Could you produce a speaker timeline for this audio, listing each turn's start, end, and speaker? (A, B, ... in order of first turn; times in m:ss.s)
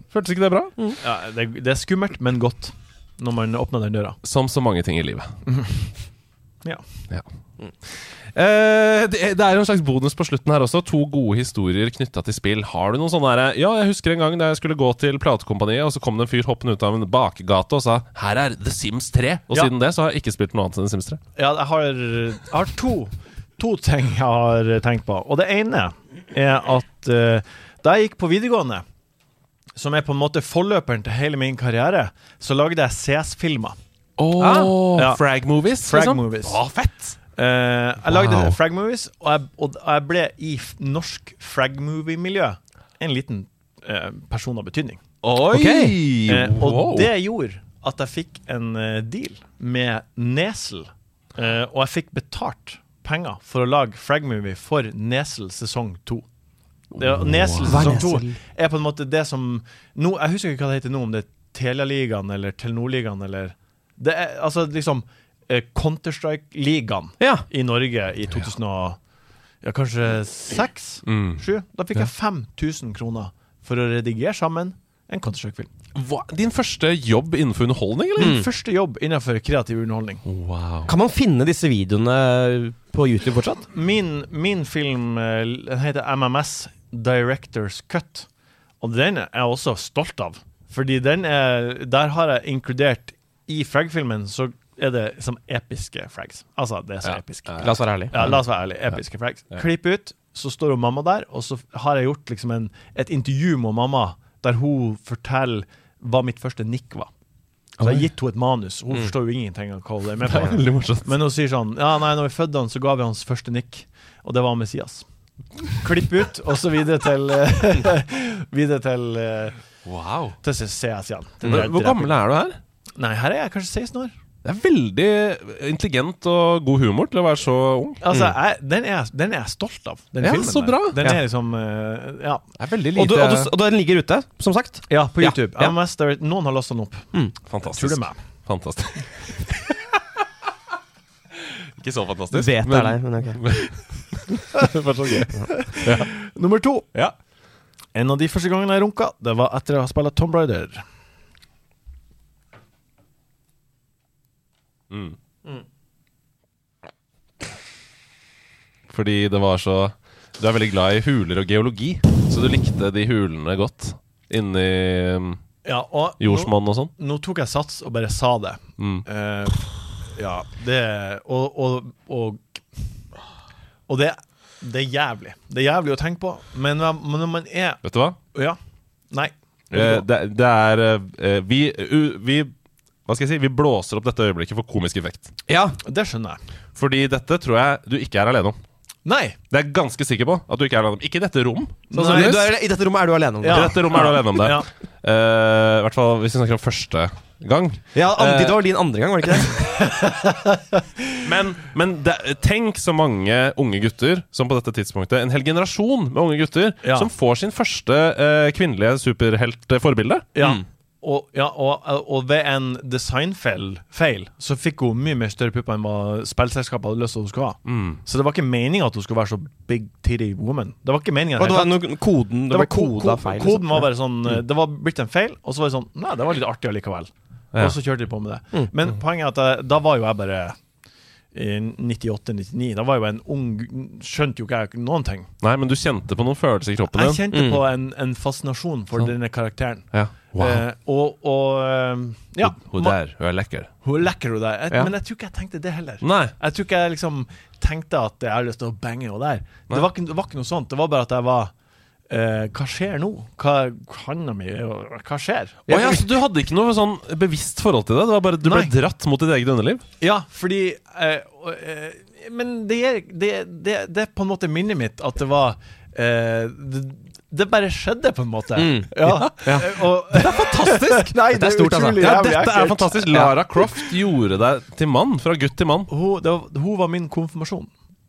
0:00.1-0:00.7 A
0:01.0-0:04.2 B
0:04.2-0:05.3 A
0:05.4-0:05.8 B
0:07.8-0:21.2 A
0:21.4-0:28.8 B
0:29.8-0:33.8 B
0:34.2-0:37.2 A
0:34.4-0:34.7 C
0:34.9-0:35.2 B
0:35.8-0:36.6 B
0:37.4-0:45.0 B
0:38.0-0:38.6 A
0:45.2-0:47.1 A
0:45.5-0:46.0 C
0:46.2-0:56.2 B
0:56.9-0:58.0 A
0:56.9-1:09.0 B
0:57.6-0:58.4 C
1:07.2-1:07.4 C
1:09.6-1:15.7 B
1:11.0-1:11.4 A
1:15.9-1:18.4 A
1:18.2-1:20.2 B
1:18.2-1:18.5 C
1:20.2-1:20.9 A
1:20.9-1:23.6 C
1:23.7-1:28.3 B
1:28.8-1:47.1 B
1:37.0-1:38.4 A
1:37.6-1:38.3 C
1:47.8-1:48.0 A
1:47.8-1:55.0 B
1:50.2-1:51.1 A
1:55.7-1:59.6 B
1:59.8-2:00.4 A
2:00.4-2:02.2 B
2:01.4-2:02.6 A
2:03.0-2:04.1 B
2:04.4-2:08.2 A
2:08.0-2:12.4 B
2:10.2-2:11.2 A
2:12.6-2:13.5 A
2:12.9-2:15.7 C
2:14.9-2:17.1 B
2:17.5-2:19.5 A
2:17.7-2:18.2 B
2:21.5-2:26.1 A
2:22.3-2:23.7 C
2:25.6-2:26.9 B
2:27.9-2:30.8 B
2:34.9-2:35.2 A
2:38.9-2:45.4 A
2:45.6-2:52.8 B
2:46.2-2:46.9 A
2:48.8-2:49.0 A
2:53.9-2:57.8 B
2:57.8-2:58.2 A
2:59.1-3:00.0 B
2:59.7-3:02.5 A
3:03.0-3:05.3 A
3:05.5-3:05.8 C
3:05.8-3:06.4 B
3:06.8-3:08.6 A
3:09.0-3:09.4 B
3:09.5-3:12.5 A
3:11.9-3:12.5 B
3:11.9-3:14.0 C
3:13.4-3:14.7 B
3:13.5-3:18.6 A
3:17.9-3:19.6 C
3:19.5-3:20.8 B
3:21.2-3:30.2 A
3:26.8-3:27.1 B
3:30.3-3:41.8 B
3:37.6-3:38.0 A
3:41.4-3:43.9 C
3:42.5-3:50.6 B
3:51.3-3:55.3 B
3:55.4-3:57.3 A
3:56.9-4:03.0 B
3:57.3-3:57.6 C
3:59.9-4:00.6 A
4:02.4-4:03.7 A
4:03.8-4:11.5 B
4:06.0-4:06.3 A
4:12.1-4:16.1 B
4:15.7-4:19.8 A
4:18.4-4:18.7 B
4:20.0-4:33.3 B
4:28.6-4:28.9 C
4:29.0-4:31.1 A
4:31.3-4:32.1 C
4:32.0-4:35.9 A
4:35.9-4:37.7 B